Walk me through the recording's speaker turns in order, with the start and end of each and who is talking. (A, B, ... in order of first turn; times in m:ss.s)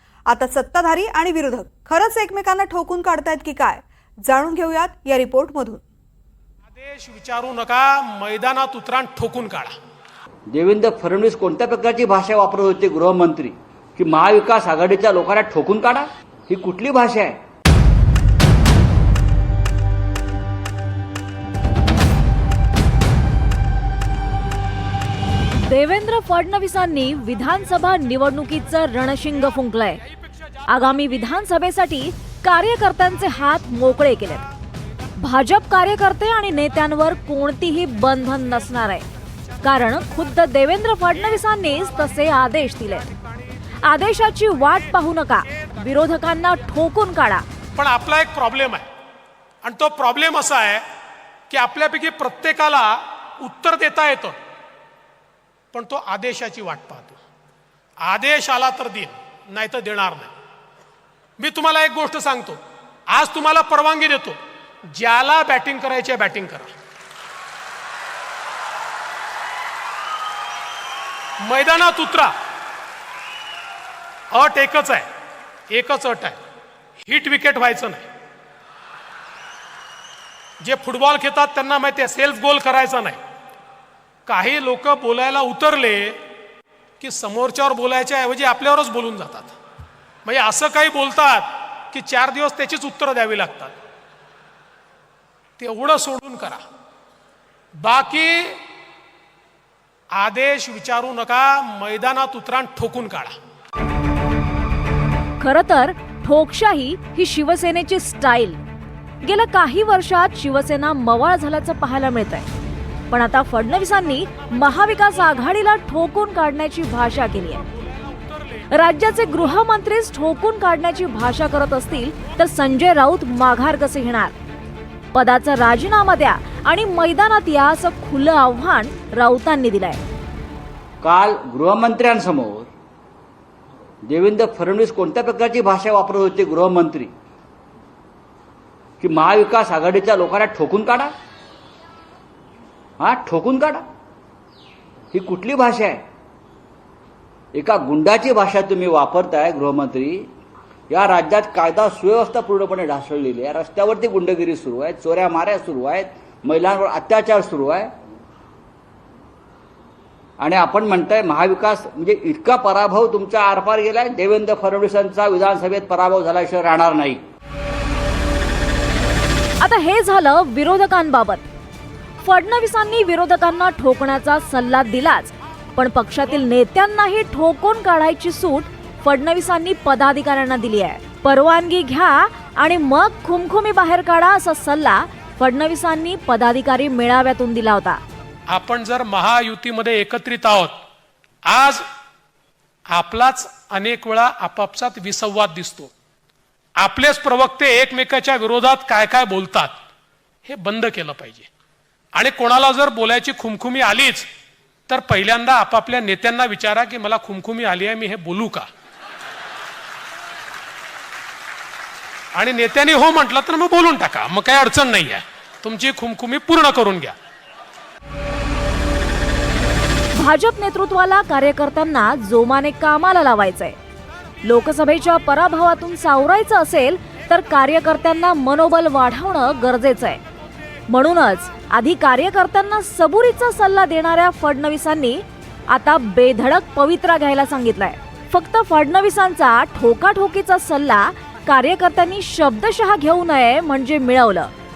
0:00.3-0:05.8 A
0:06.8-0:09.8 B
0:10.5-0:17.4 C
0:25.6-0:30.0 D
0:30.7-0:34.5 D
0:35.2-0:39.0 D
0:39.6-0:43.1 D
0:43.8-0:47.5 D
0:47.8-0:48.9 B
0:49.6-0:50.9 B
0:51.5-0:54.4 B
0:55.7-0:57.2 B
0:58.0-1:00.3 B
1:01.4-1:06.7 B
1:11.4-1:12.3 B
1:14.3-1:15.1 B
1:15.7-1:16.4 B
1:17.0-1:18.1 B
1:20.6-1:23.2 B
1:24.3-1:26.2 B
1:27.0-1:29.6 B
1:30.2-1:33.8 B
1:35.6-1:36.6 B
1:37.8-1:38.6 B
1:40.1-1:43.4 B
1:45.4-1:48.6 D
1:49.2-1:52.5 D
1:53.1-1:57.6 D
1:58.7-2:04.4 D
2:05.1-2:10.0 D
2:11.0-2:12.7 C
2:14.0-2:17.1 C
2:19.0-2:21.1 C
2:23.0-2:23.8 C
2:25.1-2:26.0 C
2:27.5-2:30.3 C
2:30.9-2:37.9 C
2:40.4-2:47.2 C
2:49.6-2:51.4 D
2:52.2-3:08.0 D
3:08.5-3:10.8 B
3:11.5-3:11.8 B
3:12.9-3:15.9 B
3:16.8-3:19.8 B
3:20.4-3:21.5 B
3:22.1-3:24.3 B
3:24.9-3:28.7 B
3:32.4-3:37.2 B
3:40.1-3:43.8 D
3:44.4-3:50.2 D
3:50.9-4:04.5 D